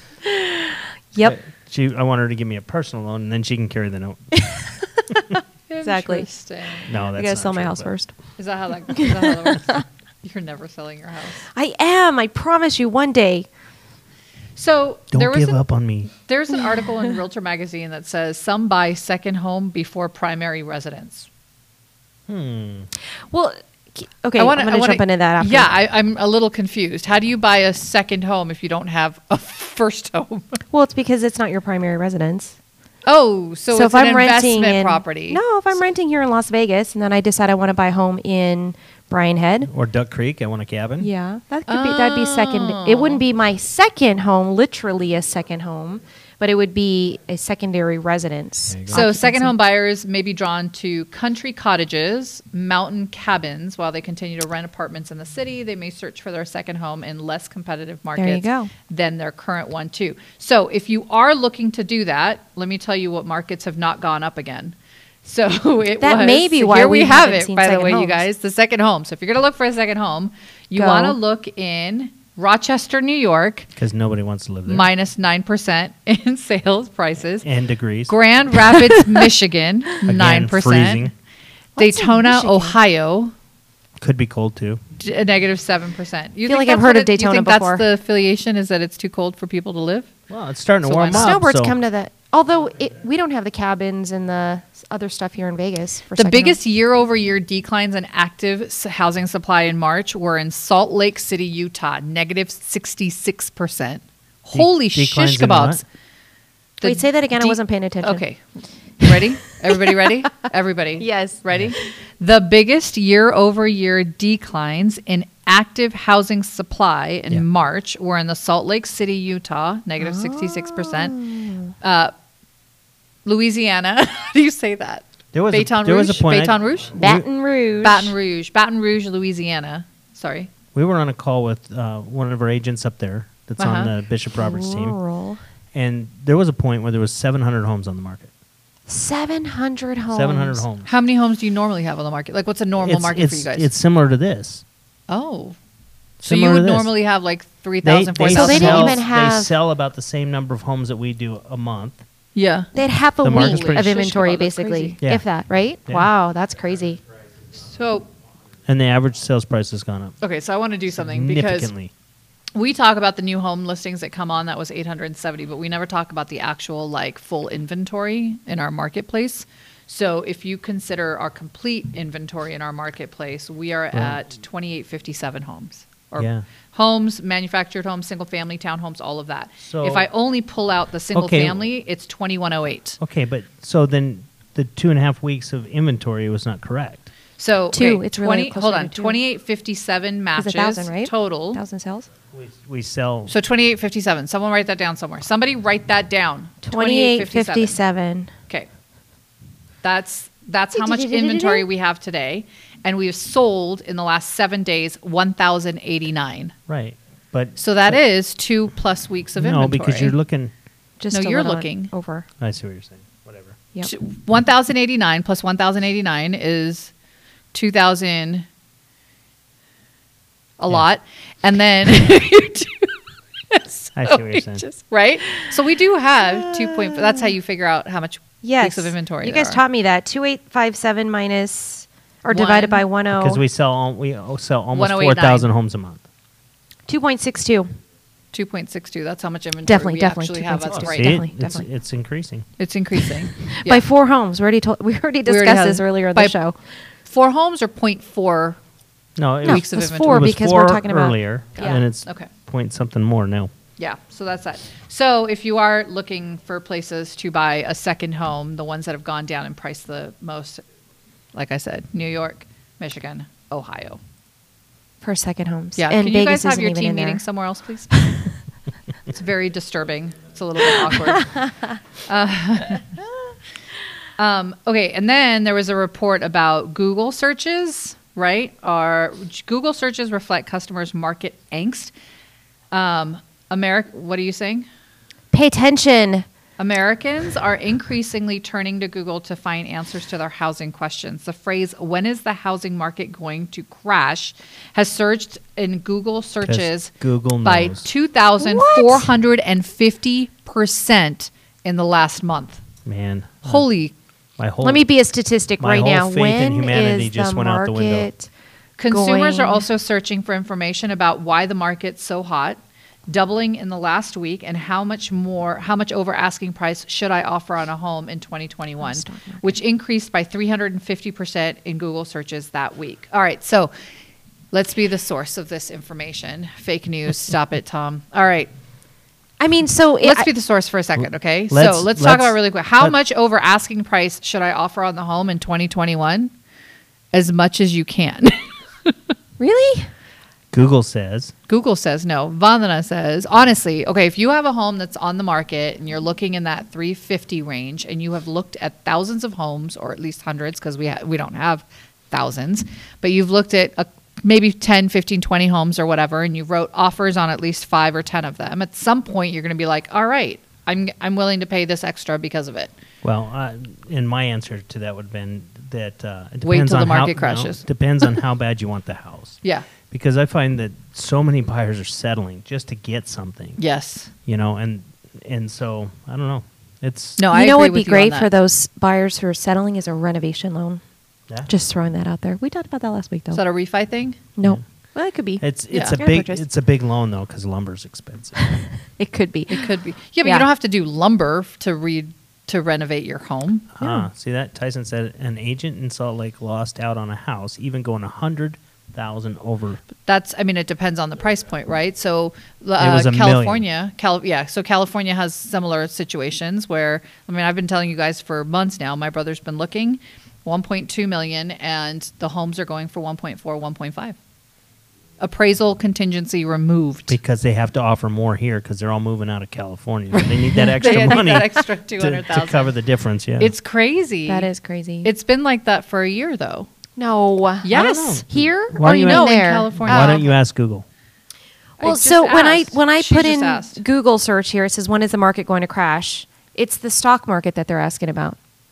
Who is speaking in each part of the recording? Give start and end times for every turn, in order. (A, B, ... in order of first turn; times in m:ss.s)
0:00.2-0:01.4 A
0:01.2-0:04.3 B
0:04.3-0:06.3 A
0:05.7-0:06.9 C
0:06.9-0:07.9 B
0:06.9-0:08.1 A
0:08.4-0:11.5 C
0:08.9-0:09.8 A
0:11.5-0:13.5 A
0:14.6-0:15.6 C
0:15.1-0:16.1 B
0:16.1-0:21.3 C
0:16.8-0:17.1 A
0:22.3-0:22.9 B
0:23.3-0:25.7 A
0:24.4-0:30.6 C
0:30.7-0:32.6 A
0:33.0-0:35.4 C
0:33.7-0:39.7 A
0:39.7-0:41.1 B
0:41.0-0:49.5 A
0:41.7-0:43.2 C
0:48.7-0:49.0 B
0:48.9-1:13.7 C
0:58.2-0:58.7 A
1:06.0-1:08.2 A
1:10.8-1:11.2 A
1:13.8-1:14.9 B
1:14.7-1:17.5 C
1:17.4-1:18.1 B
1:18.1-1:21.1 C
1:20.1-1:21.1 B
1:21.8-1:22.8 A
1:21.8-1:23.3 C
1:24.0-1:24.8 B
1:25.0-1:30.1 C
1:26.5-1:27.8 A
1:30.3-1:31.8 B
1:30.8-1:31.4 C
1:31.1-1:36.6 A
1:36.1-1:45.8 C
1:44.5-1:45.8 B
1:46.8-2:01.2 C
1:46.8-1:48.2 A
1:51.0-1:51.4 A
2:00.0-2:01.7 A
2:01.8-2:02.1 C
2:03.2-2:07.0 C
2:05.3-2:07.2 B
2:07.0-2:08.1 A
2:07.8-2:10.5 C
2:10.8-2:15.0 B
2:13.6-2:13.9 C
2:14.4-2:15.4 A
2:15.7-2:18.3 B
2:18.9-2:20.6 A
2:20.1-2:20.9 B
2:20.8-2:23.7 C
2:22.8-2:24.6 B
2:25.1-2:25.6 C
2:26.2-2:29.0 C
2:26.2-2:26.9 B
2:27.8-2:32.0 B
2:28.2-2:29.5 A
2:32.4-2:32.7 C
2:32.7-2:37.0 A
2:33.2-2:34.0 B
2:33.3-2:35.0 C
2:37.6-2:38.1 C
2:38.6-2:40.2 B
2:40.2-2:41.7 C
2:40.9-2:41.9 B
2:42.5-3:03.0 C
2:56.2-2:56.4 B
2:59.6-3:00.1 B
3:01.1-3:01.6 B
3:03.0-3:07.1 B
3:07.4-3:11.6 C
3:07.7-3:09.2 A
3:10.4-3:12.1 A
3:12.3-3:13.3 B
3:13.3-3:17.8 C
3:16.6-3:18.3 A
3:19.8-3:26.5 C
3:20.7-3:21.7 A
3:26.7-3:28.0 B
3:27.6-3:30.1 C
3:29.4-3:30.5 B
3:31.0-3:32.3 A
3:31.1-3:31.9 C
3:32.4-3:33.6 B
3:33.8-3:36.9 C
3:37.5-3:38.5 C
3:40.6-3:42.9 C
3:43.5-3:49.6 C
3:44.0-3:44.6 B
3:48.4-3:53.4 A
3:52.3-3:52.8 C
3:53.1-3:56.0 B
3:54.7-3:55.5 C
3:56.9-3:57.7 A
3:58.3-4:01.2 C
3:59.6-4:01.6 A
4:00.6-4:02.5 B
4:02.6-4:03.8 C
4:03.6-4:06.6 A
4:05.2-4:06.4 C
4:07.1-4:08.6 C
4:09.2-4:13.5 B
4:09.4-4:11.8 A
4:09.4-4:10.4 C
4:11.6-4:12.3 C
4:13.8-4:20.6 C
4:21.3-4:24.0 C
4:25.0-4:27.2 A
4:25.8-4:28.2 C
4:29.1-4:31.4 C
4:32.1-4:32.9 C
4:34.2-4:41.9 C
4:42.7-4:44.7 C
4:45.3-4:46.2 A
4:46.6-4:56.9 C
4:56.5-4:57.8 B
4:57.4-5:02.6 C
4:58.4-4:59.1 A
5:02.8-5:03.6 B
5:03.4-5:03.9 C
5:04.4-5:04.9 B
5:04.6-5:08.3 A
5:05.6-5:08.1 B
5:08.8-5:23.7 C
5:08.9-5:09.6 A
5:18.8-5:19.6 A
5:24.5-5:28.5 C
5:29.4-5:30.3 A
5:30.0-5:36.3 C
5:31.5-5:32.9 B
5:37.1-5:38.9 C
5:39.4-5:39.9 A
5:40.5-5:41.3 B
5:41.5-6:02.7 C
6:03.0-6:13.6 B
6:06.4-6:07.6 C
6:13.6-6:14.1 C
6:14.2-6:17.2 B
6:17.2-6:18.3 C
6:17.3-6:20.8 A
6:21.5-6:23.4 A
6:23.3-6:24.2 C
6:24.4-6:26.5 A
6:25.4-6:28.4 B
6:25.7-6:26.0 C
6:28.5-6:29.6 A
6:29.5-6:33.7 C
6:30.2-6:30.5 A
6:33.8-6:39.8 B
6:33.8-6:34.1 A
6:40.0-6:54.2 C
6:42.8-6:43.6 B
6:55.2-6:57.2 C
6:57.1-7:03.5 B
7:00.8-7:02.7 C
7:00.9-7:01.2 A
7:03.4-7:04.5 C
7:04.3-7:05.1 A
7:05.0-7:06.7 C
7:07.0-7:10.2 A
7:07.6-7:08.2 C
7:07.7-7:10.8 B
7:09.0-7:10.3 C
7:11.8-7:13.8 C
7:11.8-7:18.4 A